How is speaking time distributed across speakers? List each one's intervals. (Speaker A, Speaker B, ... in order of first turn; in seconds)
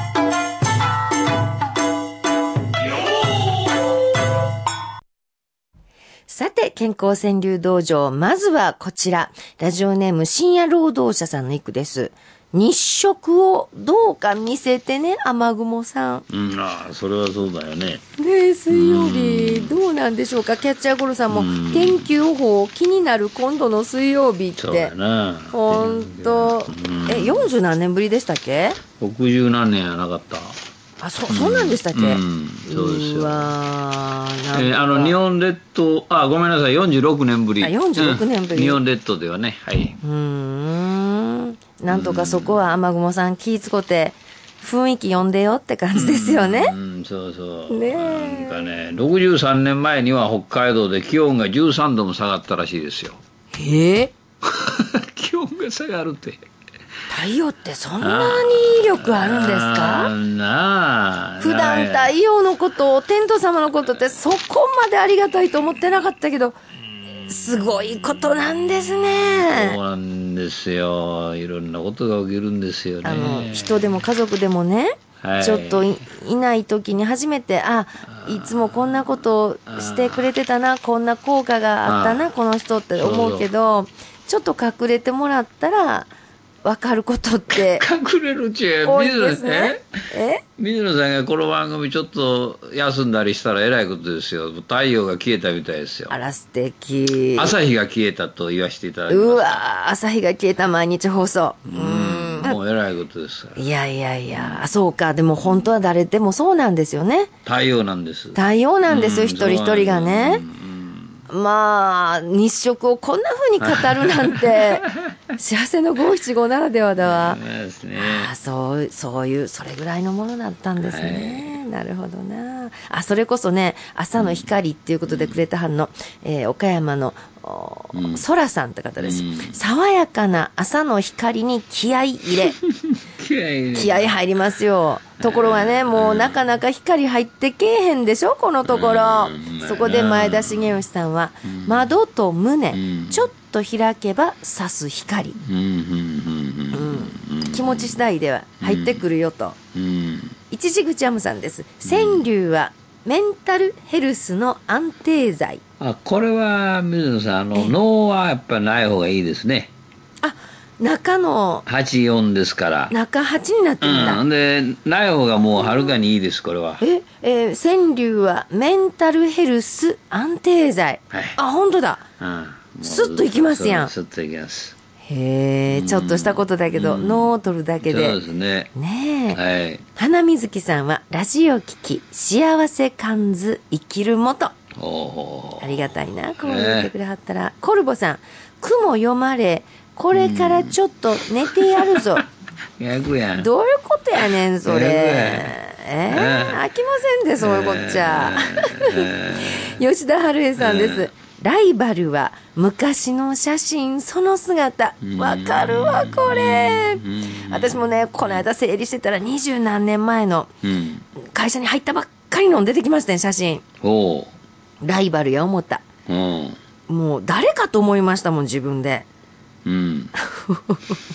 Speaker A: 6.3-16.2, 18.2-24.9, 25.5-28.8, 31.0-35.2, 37.6-38.8, 40.0-46.7, 47.7-48.6, 53.5-54.1, 57.1-60.1, 61.4-66.5, 67.1-69.8, 73.0-86.1, 86.6-87.8, 88.8-90.4, 96.1-97.5, 99.1-102.6, 103.5-107.3, 108.3-110.4, 111.3-117.4, 118.0-132.6, 133.7-145.4, 146.7-149.6, 150.5-155.6, 160.2-161.7, 162.9-164.2, 166.8-172.0, 172.8-173.9, 175.0-178.2, 178.7-179.4, 179.9-184.5, 185.6-192.2, 193.4-210.5, 211.2-213.6, 214.8-215.8, 216.9-219.1, 220.2-221.0
Speaker B: 16.3-18.0, 18.7-19.8, 21.3-22.1, 24.6-27.5, 29.0-30.6, 31.3-33.5, 34.5-40.0, 41.9-42.6, 45.9-53.2, 54.4-56.4, 58.0-62.1, 69.1-74.0, 75.2-75.9, 78.1-79.0, 79.7-80.3, 81.8-82.3, 83.0-83.5, 87.5-89.8, 90.6-96.1, 97.3-99.6, 101.7-103.6, 104.3-104.7, 105.4-105.7, 107.5-111.2, 113.6-114.7, 117.0-118.3, 120.8-121.6, 124.1-124.5, 125.1-125.4, 127.9-128.2, 129.0-129.6, 132.6-134.2, 135.2-136.4, 138.7-140.8, 141.4-141.9, 142.7-143.3, 145.4-148.0, 148.6-149.0, 149.7-150.3, 151.8-152.2, 155.8-159.7, 161.7-162.9, 163.8-166.8, 171.1-171.4, 172.2-174.7, 175.7-178.7, 179.3-179.8, 184.8-186.9, 190.1-190.8, 191.5-192.2, 192.8-193.5, 194.6-195.5, 196.1-196.6, 197.4-199.8, 200.6-201.1, 205.0-208.4, 210.6-211.0, 213.8-214.3, 216.1-216.6, 219.6-220.1